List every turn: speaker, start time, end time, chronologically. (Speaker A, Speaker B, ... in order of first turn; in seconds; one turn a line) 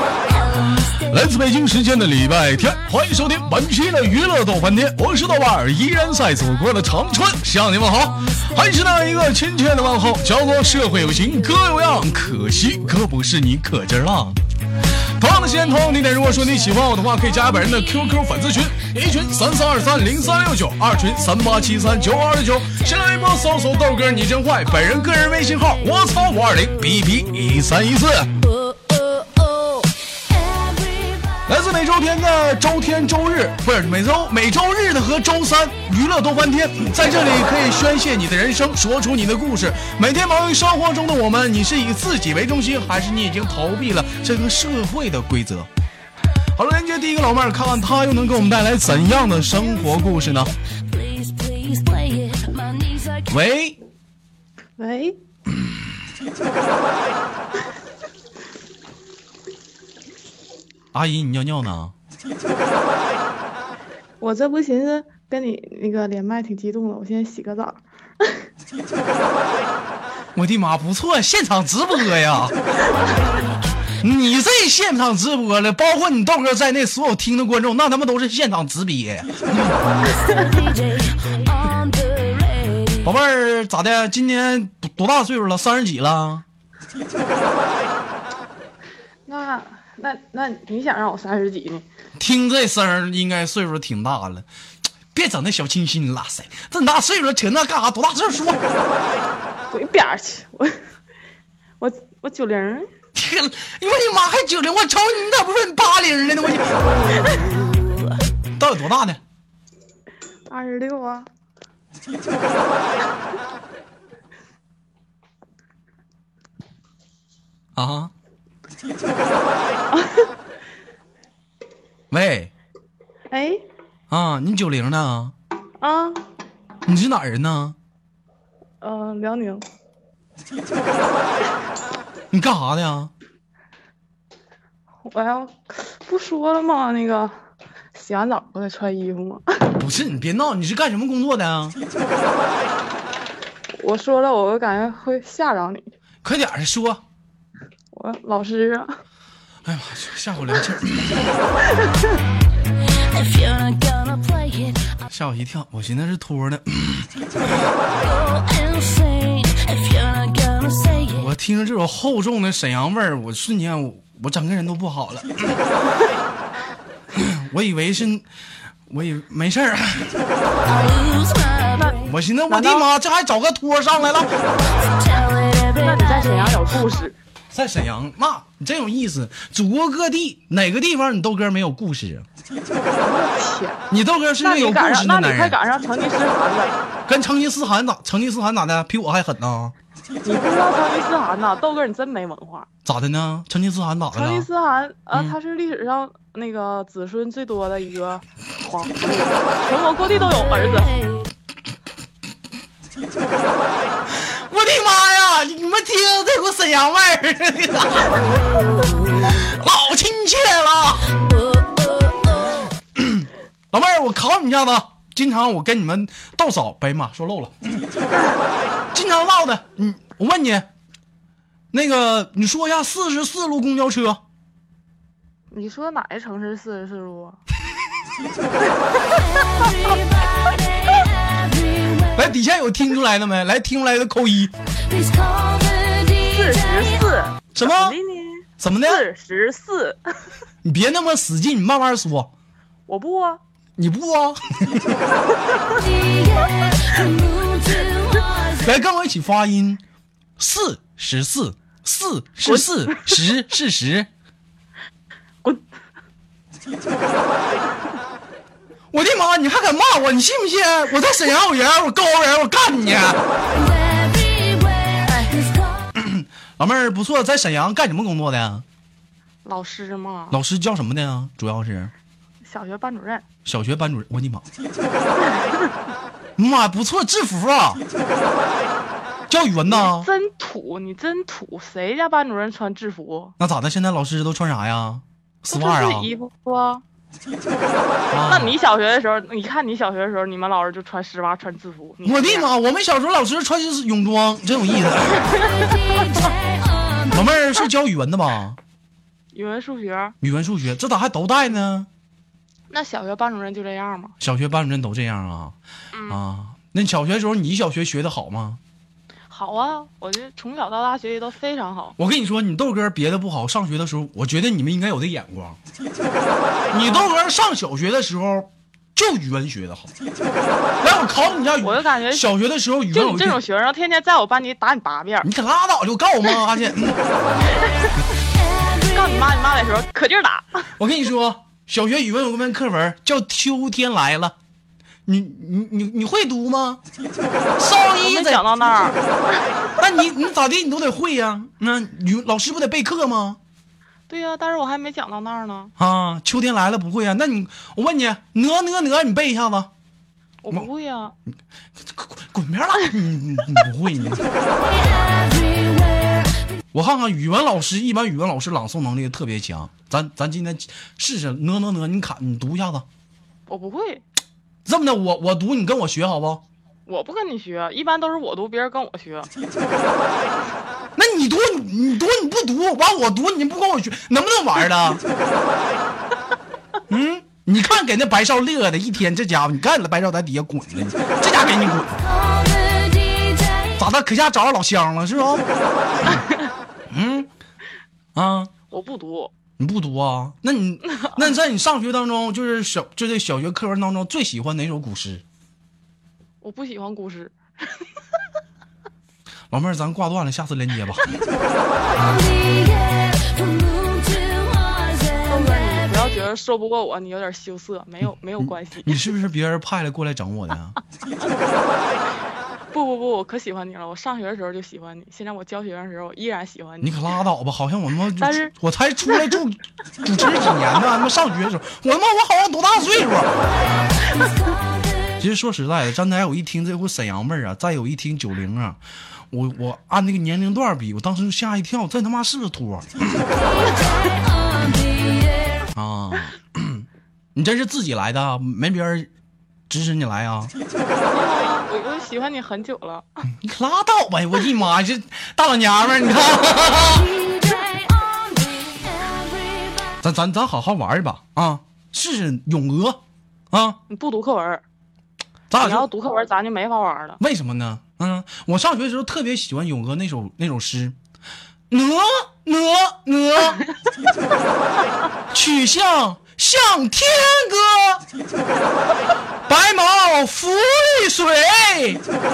Speaker A: 0.2-1.3
Speaker B: 1.1-14.4
Speaker A: 8.4-8.8
Speaker B: 15.2-28.3
Speaker A: 28.5-31.4
Speaker B: 31.5-45.7
Speaker B: 46.5-50.5
Speaker A: 50.8-53.3
Speaker B: 53.3-53.8
Speaker C: 54.8-55.2
Speaker B: 60.9-61.9
Speaker C: 64.2-68.4
Speaker B: 70.3-72.6
Speaker A: 73.1-73.5
Speaker B: 74.0-80.0
Speaker A: 80.0-83.0
Speaker B: 83.0-86.4
Speaker C: 89.3-91.8
Speaker B: 92.2-94.5
Speaker B: 95.1-98.6
Speaker C: 99.7-100.8
Speaker C: 101.8-102.9
Speaker B: 103.1-106.8
Speaker A: 107.1-108.1
Speaker B: 108.6-109.2
Speaker C: 110.5-111.3
Speaker B: 117.8-118.1
Speaker C: 119.9-120.3
Speaker B: 122.1-122.5
Speaker C: 123.3-123.6
Speaker B: 124.1-125.3
Speaker C: 125.8-126.2
Speaker B: 126.8-127.8
Speaker C: 128.8-129.6
Speaker B: 132.3-133.1
Speaker C: 135.0-137.3
Speaker C: 137.9-139.8
Speaker B: 139.8-141.8
Speaker C: 143.8-145.9
Speaker B: 146.2-147.0
Speaker C: 147.9-148.9
Speaker B: 149.6-151.4
Speaker A: 152.9-154.9
Speaker B: 155.1-157.1
Speaker A: 158.0-161.3
Speaker B: 161.2-165.6
Speaker B: 167.1-168.2
Speaker B: 168.9-170.2
Speaker A: 170.6-172.0
Speaker B: 172.0-174.3
Speaker C: 172.5-172.8
Speaker A: 174.9-176.2
Speaker C: 175.8-177.2
Speaker B: 177.5-182.2
Speaker C: 183.0-183.8
Speaker B: 183.9-185.6
Speaker C: 184.4-186.7
Speaker B: 187.1-189.7
Speaker C: 190.2-192.7
Speaker B: 192.8-194.5
Speaker C: 194.1-200.9
Speaker B: 204.1-208.3
Speaker A: 208.5-209.2
Speaker B: 209.3-211.1
Speaker A: 211.3-212.7
Speaker B: 212.9-217.8
Speaker B: 218.9-220.7
Speaker B: 221.7-224.2
Speaker C: 225.5-227.4
Speaker A: 229.1-232.1
Speaker B: 232.1-234.5
Speaker A: 234.8-237.0
Speaker C: 236.2-240.0
Speaker B: 237.5-237.9
Speaker B: 238.6-239.0
Speaker B: 240.6-242.3
Speaker C: 242.9-243.4
Speaker B: 243.8-245.0
Speaker A: 245.7-248.7
Speaker B: 248.6-249.8
Speaker B: 250.4-254.1
Speaker C: 252.5-253.1
Speaker B: 258.9-263.3
Speaker A: 263.4-265.6
Speaker C: 265.1-265.5
Speaker B: 265.9-268.6
Speaker C: 269.4-270.4
Speaker B: 270.3-271.9
Speaker C: 272.4-273.2
Speaker B: 273.4-274.4
Speaker C: 275.2-275.7
Speaker B: 276.4-277.8
Speaker B: 279.3-280.1
Speaker C: 279.7-283.3
Speaker B: 283.4-286.1
Speaker C: 285.5-286.8
Speaker B: 288.1-288.5
Speaker C: 288.3-292.5
Speaker B: 292.0-295.4
Speaker C: 295.4-295.8
Speaker A: 295.6-297.1
Speaker B: 297.1-298.6
Speaker C: 299.3-300.1
Speaker B: 300.2-301.9
Speaker C: 302.7-304.1
Speaker B: 304.2-305.6
Speaker C: 305.9-306.2
Speaker B: 306.1-308.6
Speaker C: 309.3-311.9
Speaker B: 312.0-315.6
Speaker B: 316.7-319.9
Speaker C: 316.8-317.1
Speaker B: 320.8-323.4
Speaker C: 321.6-322.3
Speaker C: 322.9-325.3
Speaker B: 325.2-327.0
Speaker C: 328.7-330.7
Speaker B: 330.8-334.3
Speaker B: 335.1-336.8
Speaker B: 337.6-338.4
Speaker C: 338.0-339.4
Speaker B: 339.8-343.4
Speaker C: 344.1-345.7
Speaker B: 345.8-349.7
Speaker C: 350.4-351.1
Speaker B: 351.8-354.2
Speaker A: 354.6-356.5
Speaker B: 356.7-362.9
Speaker C: 363.5-364.0
Speaker B: 364.6-366.4
Speaker C: 366.9-369.3
Speaker B: 370.9-375.0
Speaker B: 376.9-382.0
Speaker A: 382.0-383.8
Speaker B: 383.8-385.4
Speaker B: 386.9-387.3
Speaker B: 388.1-388.5
Speaker C: 388.7-389.3
Speaker B: 389.6-395.2
Speaker C: 396.4-397.4
Speaker B: 399.5-401.1
Speaker A: 401.9-405.3
Speaker C: 405.3-409.0
Speaker B: 408.4-410.8
Speaker C: 412.7-417.0
Speaker B: 416.8-423.4
Speaker C: 418.2-418.5
Speaker A: 424.1-424.6
Speaker B: 425.2-428.8
Speaker B: 429.3-433.2
Speaker A: 433.5-435.6
Speaker B: 435.7-439.1
Speaker B: 439.7-440.5
Speaker C: 441.1-443.1
Speaker B: 443.3-447.1
Speaker A: 446.9-449.9
Speaker B: 450.0-453.0
Speaker B: 453.5-453.8
Speaker C: 453.9-454.6
Speaker B: 455.5-455.9
Speaker C: 455.6-457.2
Speaker B: 457.2-460.9
Speaker B: 461.7-463.6
Speaker B: 465.3-468.0
Speaker B: 469.5-472.0